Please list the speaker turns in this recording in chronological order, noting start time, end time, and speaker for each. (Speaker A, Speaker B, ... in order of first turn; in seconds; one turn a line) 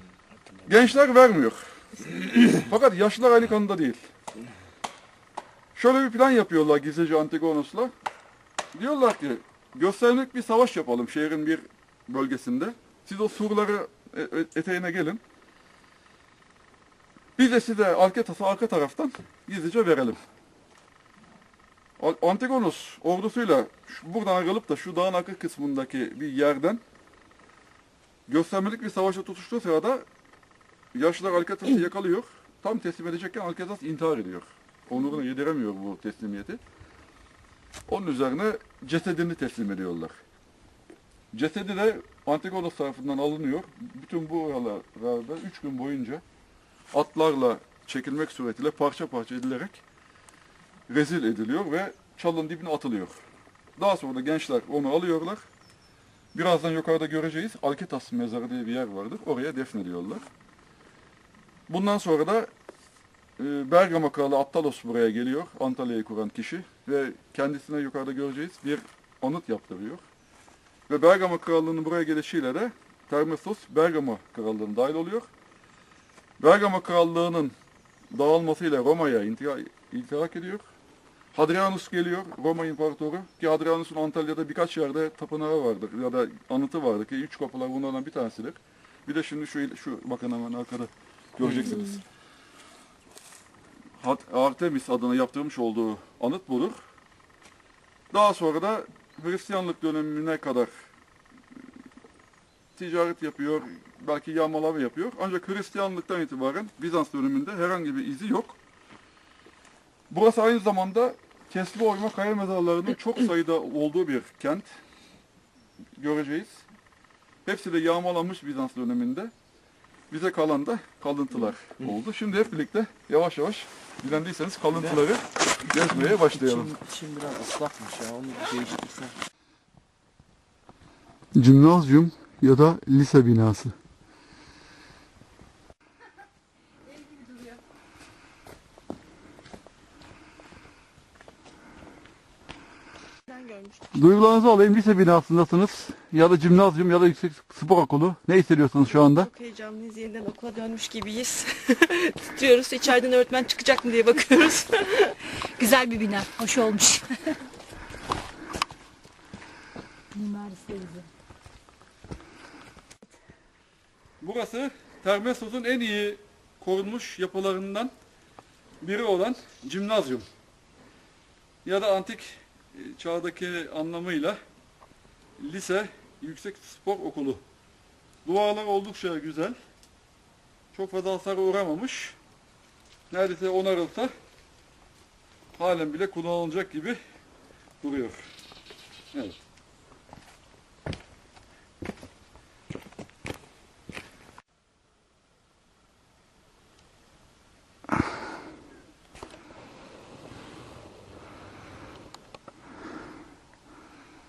Speaker A: 0.6-4.0
Speaker A: 5.7-7.9
Speaker A: 8.7-15.2
Speaker A: 17.4-20.2
Speaker A: 22.0-26.8
Speaker A: 28.3-30.0
Speaker A: 30.9-36.6
Speaker A: 37.9-40.1
Speaker A: 41.3-46.2
Speaker A: 46.9-49.8
Speaker A: 50.9-53.2
Speaker A: 53.8-55.5
Speaker A: 56.3-60.2
Speaker A: 61.7-62.5
Speaker A: 63.4-70.0
Speaker A: 70.9-75.3
Speaker A: 76.4-77.5
Speaker A: 78.1-80.6
Speaker A: 81.3-92.0
Speaker A: 94.0-96.8
Speaker A: 98.1-100.7
Speaker A: 102.8-108.6
Speaker A: 110.1-114.7
Speaker A: 116.0-116.7
Speaker A: 117.4-119.3
Speaker A: 120.1-126.7
Speaker B: 125.7-129.1
Speaker A: 131.3-133.7
Speaker C: 143.3-143.9
Speaker A: 143.9-149.3
Speaker C: 148.9-155.2
Speaker D: 155.6-157.4
Speaker D: 160.1-161.1
Speaker A: 164.2-167.9
Speaker A: 168.8-170.3
Speaker A: 171.6-174.4
Speaker A: 175.4-177.4
Speaker A: 178.2-179.6
Speaker A: 180.7-182.2
Speaker A: 183.1-184.1
Speaker A: 185.6-187.0
Speaker A: 187.8-188.3